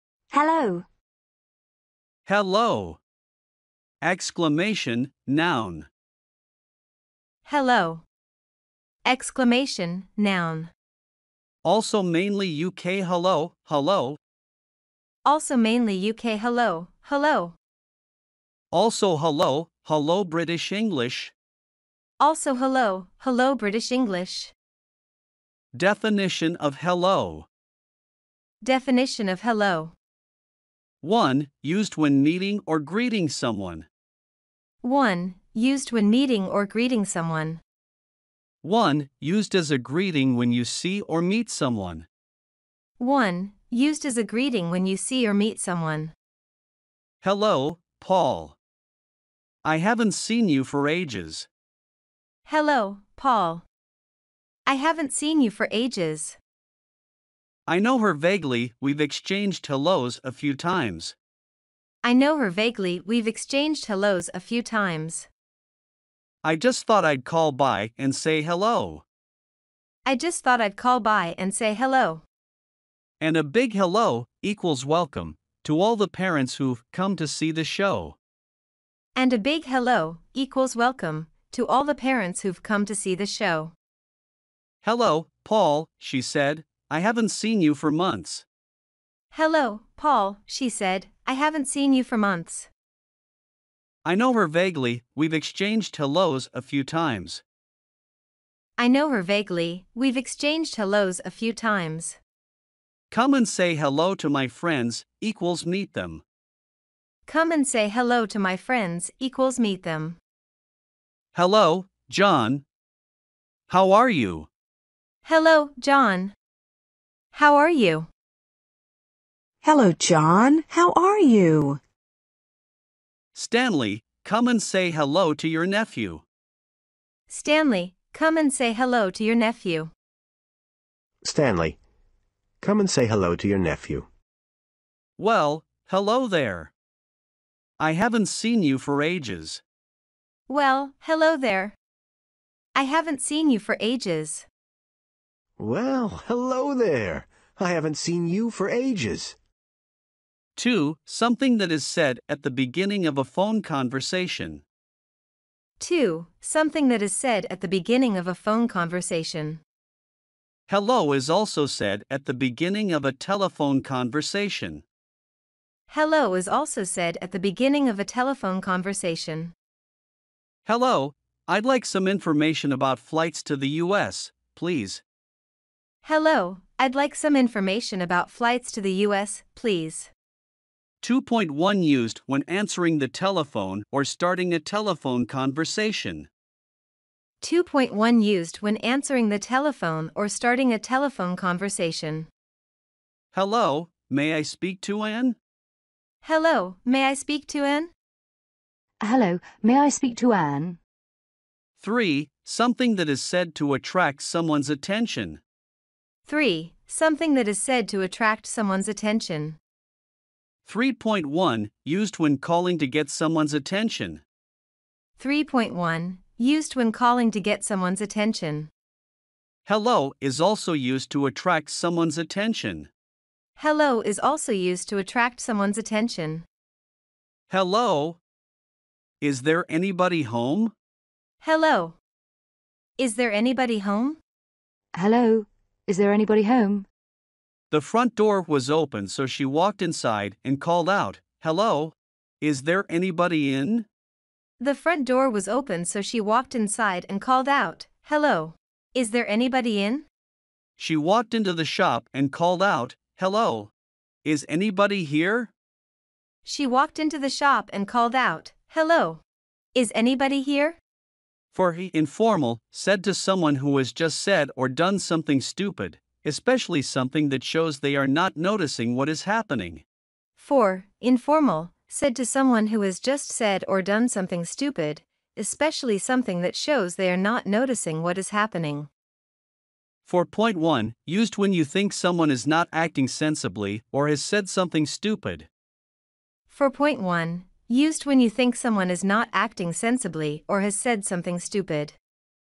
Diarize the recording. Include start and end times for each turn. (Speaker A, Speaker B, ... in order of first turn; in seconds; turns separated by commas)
Speaker A: 0.3-0.8, Speaker B: 2.3-3.0, Speaker B: 4.0-5.9, Speaker C: 7.5-8.1, Speaker C: 9.1-10.7, Speaker B: 11.6-14.2, Speaker C: 15.2-17.6, Speaker B: 18.7-21.3, Speaker C: 22.2-24.5, Speaker B: 25.7-27.5, Speaker C: 28.6-29.9, Speaker B: 31.0-33.9, Speaker C: 34.8-37.6, Speaker B: 38.6-42.1, Speaker C: 43.0-46.1, Speaker B: 47.2-48.6, Speaker B: 49.6-51.5, Speaker C: 52.5-53.6, Speaker C: 54.7-56.4, Speaker B: 57.7-61.1, Speaker C: 62.0-65.3, Speaker B: 66.4-69.0, Speaker C: 70.1-72.2, Speaker B: 73.2-78.2, Speaker C: 79.2-83.7, Speaker B: 84.8-88.5, Speaker C: 89.3-92.7, Speaker B: 94.0-97.4, Speaker C: 98.8-102.2, Speaker B: 103.1-106.2, Speaker C: 107.3-110.2, Speaker B: 111.3-112.6, Speaker B: 113.7-114.5, Speaker C: 115.2-116.3, Speaker C: 117.3-118.1, Speaker D: 119.6-121.8, Speaker B: 123.3-126.2, Speaker C: 127.3-129.9, Speaker E: 131.2-131.8, Speaker E: 132.6-134.1, Speaker B: 135.2-136.7, Speaker B: 137.8-139.6, Speaker C: 140.5-141.8, Speaker C: 142.8-144.5, Speaker E: 145.6-149.4, Speaker B: 150.6-154.6, Speaker C: 155.8-159.6, Speaker B: 160.7-164.8, Speaker C: 165.9-169.5, Speaker B: 170.7-175.0, Speaker C: 176.0-180.1, Speaker B: 181.0-186.3, Speaker C: 187.4-192.3, Speaker B: 193.3-195.4, Speaker C: 196.2-197.9, Speaker A: 199.0-200.8, Speaker B: 201.8-205.4, Speaker C: 206.3-209.6, Speaker B: 210.7-214.2, Speaker C: 215.2-218.7, Speaker B: 219.7-222.9, Speaker C: 223.6-226.5, Speaker B: 227.5-228.2, Speaker B: 229.2-230.7, Speaker C: 231.4-232.0, Speaker C: 233.0-234.2, Speaker A: 234.9-236.9, Speaker B: 237.7-243.9, Speaker C: 244.6-250.1, Speaker B: 250.8-253.7, Speaker B: 254.2-255.5, Speaker C: 256.4-259.2, Speaker C: 259.8-260.8, Speaker B: 261.5-269.8, Speaker C: 270.4-278.9, Speaker B: 280.1-285.5, Speaker C: 286.5-292.0